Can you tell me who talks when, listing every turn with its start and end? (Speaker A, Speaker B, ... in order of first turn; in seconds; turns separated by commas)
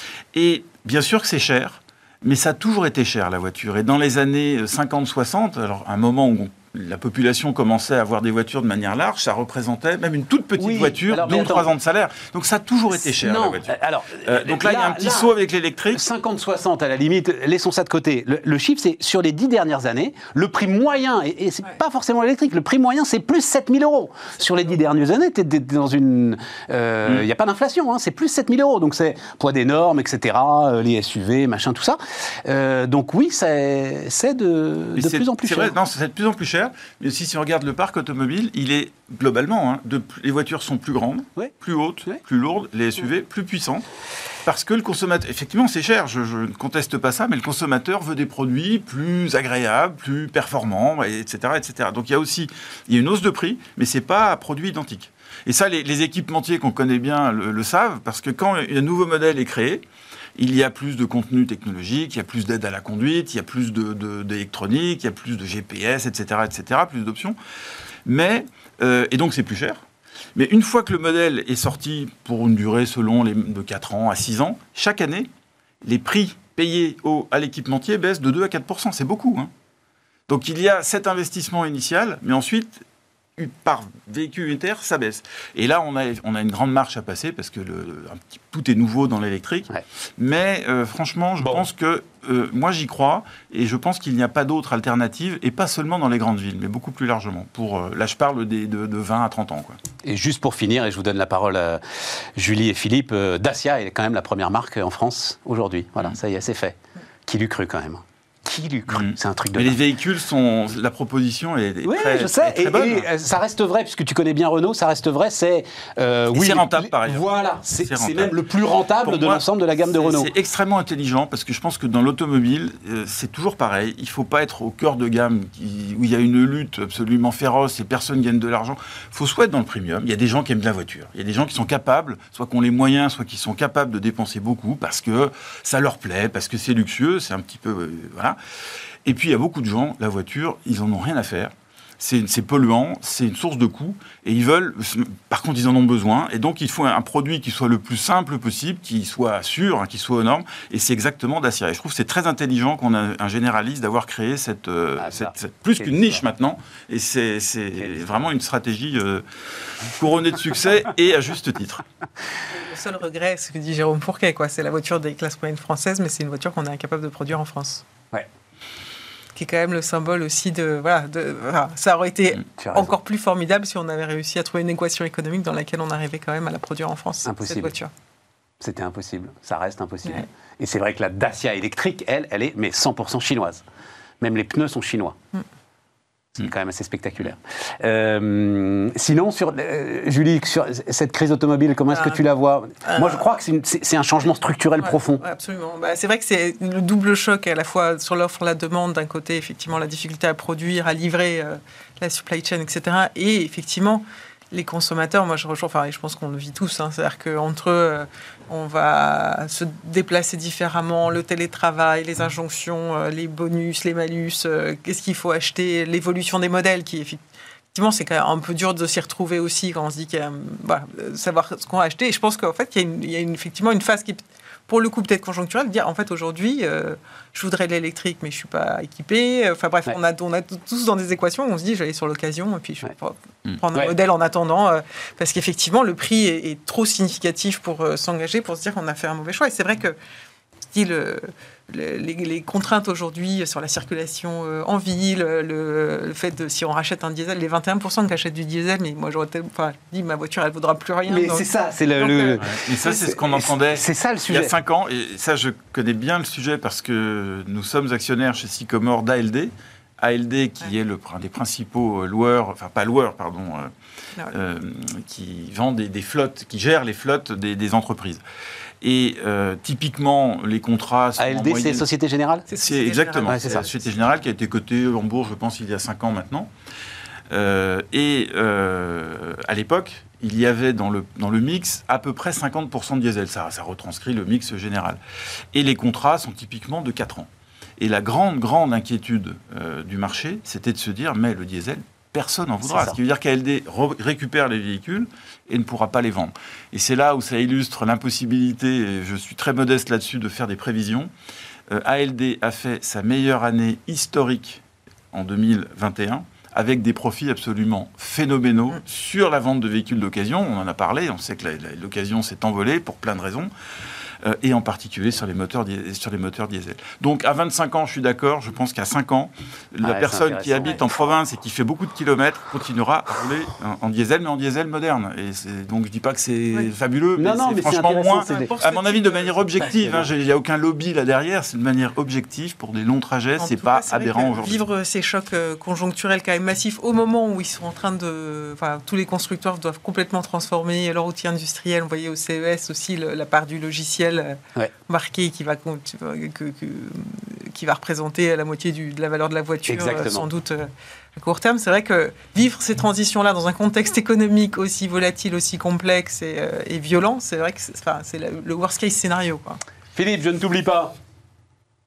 Speaker A: 0.3-16.0, Speaker B: 10.6-11.7, Speaker B: 12.9-15.3, Speaker B: 15.9-35.7, Speaker A: 35.0-43.8, Speaker A: 44.5-59.8, Speaker A: 60.4-67.4, Speaker A: 68.1-69.8, Speaker A: 70.3-75.3, Speaker A: 75.8-79.5, Speaker A: 80.3-82.8, Speaker A: 83.4-99.8, Speaker B: 100.0-109.8, Speaker A: 108.9-113.1, Speaker B: 111.8-120.3, Speaker A: 116.3-118.4, Speaker A: 119.0-138.4, Speaker A: 139.1-161.8, Speaker B: 155.0-156.2, Speaker B: 157.8-158.2, Speaker C: 162.5-167.8, Speaker C: 169.3-177.9, Speaker B: 172.6-172.9, Speaker B: 177.2-177.7, Speaker B: 178.6-183.6, Speaker B: 184.2-185.2, Speaker B: 186.4-195.2, Speaker C: 191.9-192.2, Speaker C: 192.9-193.2, Speaker C: 194.8-217.2, Speaker C: 217.7-240.0, Speaker C: 240.7-252.5, Speaker B: 251.1-254.5, Speaker A: 252.4-263.7, Speaker A: 264.3-268.2, Speaker A: 268.8-271.9, Speaker B: 271.2-272.5, Speaker C: 272.5-273.8, Speaker A: 272.5-276.5, Speaker B: 273.3-273.7, Speaker A: 277.3-285.0, Speaker A: 285.5-287.3, Speaker A: 287.8-301.1, Speaker B: 292.6-293.0, Speaker A: 301.7-313.5, Speaker A: 314.2-334.6, Speaker B: 319.8-320.8, Speaker B: 327.2-328.5, Speaker C: 328.3-330.0, Speaker B: 329.6-330.1, Speaker C: 333.4-359.6, Speaker B: 349.7-350.3, Speaker B: 359.9-360.9